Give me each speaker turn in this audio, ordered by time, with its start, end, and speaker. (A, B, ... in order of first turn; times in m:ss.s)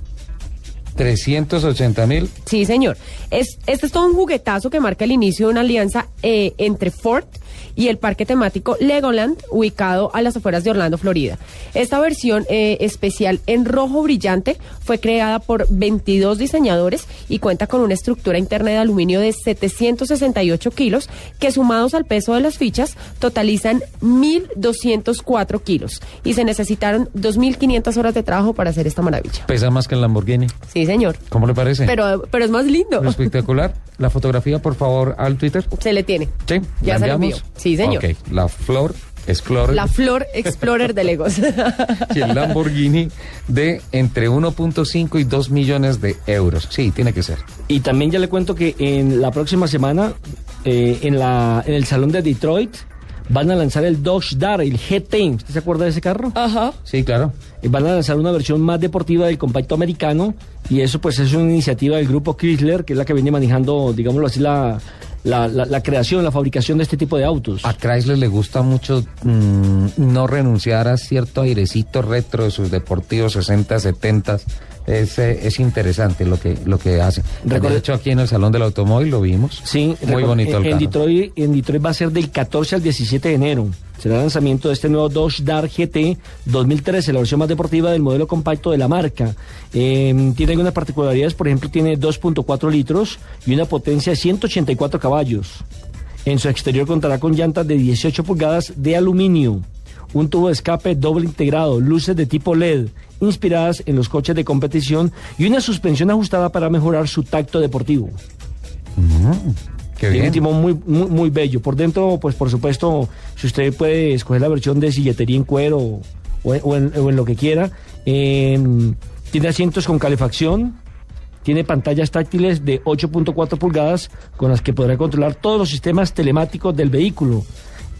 0:00.9-0:02.3 A
0:02.4-0:29.5 B
0:29.5-0:30.5 A
0:30.7-0:31.2 B
0:31.3-0:32.0 A
0:31.8-0:33.2 B
0:33.0-0:35.7 A
0:35.7-0:38.0 B
0:36.4-0:39.9 A
0:39.7-0:42.5 B
0:42.0-0:47.4 A
0:47.7-0:56.4 C
0:56.4-0:56.8 B
0:56.8-0:57.4 A
0:57.6-1:07.7 C
1:07.6-1:20.9 A
1:17.4-1:17.8 C
1:19.6-1:35.6 C
1:36.2-1:48.2 C
1:49.0-1:50.4 A
1:50.1-2:00.8 C
2:01.4-2:07.5 C